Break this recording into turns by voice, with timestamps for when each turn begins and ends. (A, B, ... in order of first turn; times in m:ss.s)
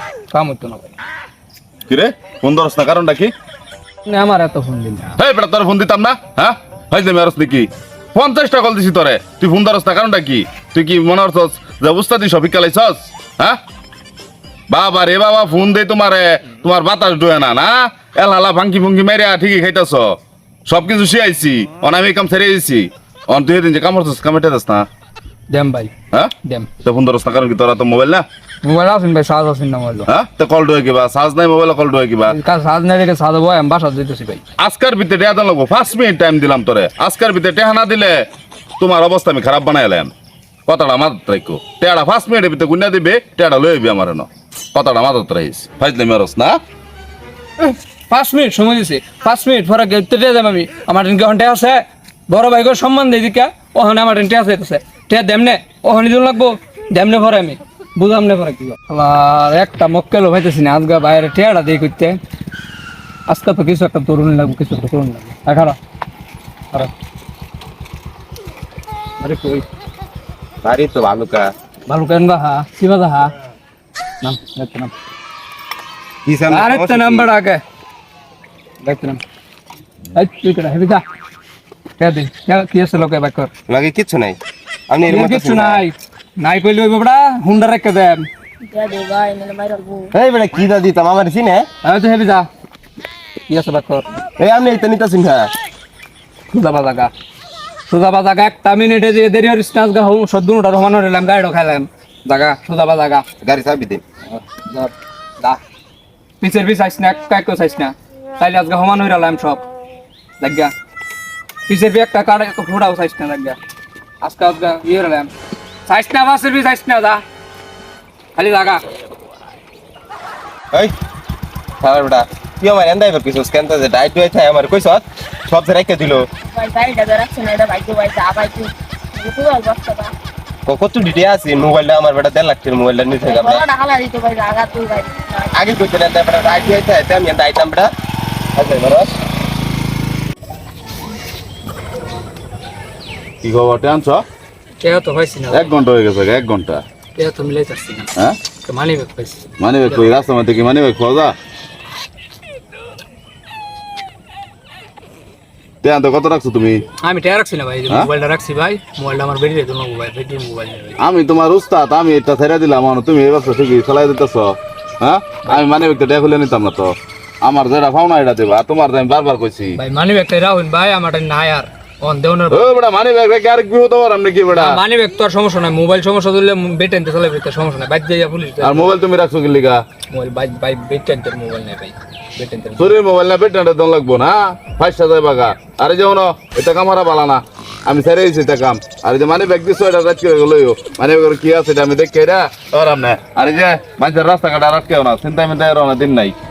0:00.3-0:00.9 A
0:01.9-0:03.3 B
0:04.1-0:05.2 A
0:05.2-0:13.6 B
0:14.7-0:20.2 B
0:20.7-0:24.9 B
0:25.5-0:25.9 A
0:26.4-0:26.7 A
0:26.8-0:28.2 B
0:28.6-0:30.1 A
0:30.1-0:32.4 B
0:32.3-0:34.4 A
0:34.6-0:38.2 B
0:38.8-0:40.1 B
0:40.7-0:46.6 B
0:47.6-1:02.2 A
1:03.3-1:05.8 A
1:09.2-1:09.6 A
1:10.6-1:11.5 C
1:11.9-1:13.3 A
1:14.2-1:14.9 A
1:16.3-1:17.3 C
1:16.5-1:17.6 A
1:18.8-1:19.2 A
1:20.1-1:21.0 A
1:22.0-1:23.5 A
1:23.7-1:24.4 C
1:24.9-1:25.8 C
1:25.1-1:28.3 A
1:28.6-1:30.1 D
1:30.2-1:31.7 C
1:31.8-1:32.5 A
1:33.5-1:34.1 A
1:34.4-1:35.5 C
1:36.5-1:37.1 A
1:37.9-1:43.2 A
1:43.4-1:44.0 C
1:44.4-1:45.6 A
1:46.4-1:49.6 A
1:50.4-1:50.7 A
1:51.7-1:53.6 A
1:54.2-1:55.3 A
1:55.9-1:57.2 A
1:58.4-1:58.8 A
2:01.8-2:06.3 C
2:06.5-2:10.1 D
2:10.7-2:13.6 C
2:13.2-2:15.5 D
2:15.6-2:17.9 C
2:18.6-2:19.1 C
2:23.4-2:24.2 B
2:24.8-2:25.7 A
2:25.5-2:26.8 B
2:27.2-2:28.1 A
2:28.6-2:30.1 A
2:29.6-2:31.4 B
2:35.8-2:36.8 B
2:37.0-2:41.0 A
2:41.0-2:49.8 B
2:49.8-2:52.7 A
2:52.5-2:54.8 B
2:54.5-2:58.9 A
2:58.6-2:59.8 B
3:00.1-3:02.9 A
3:02.8-3:16.4 B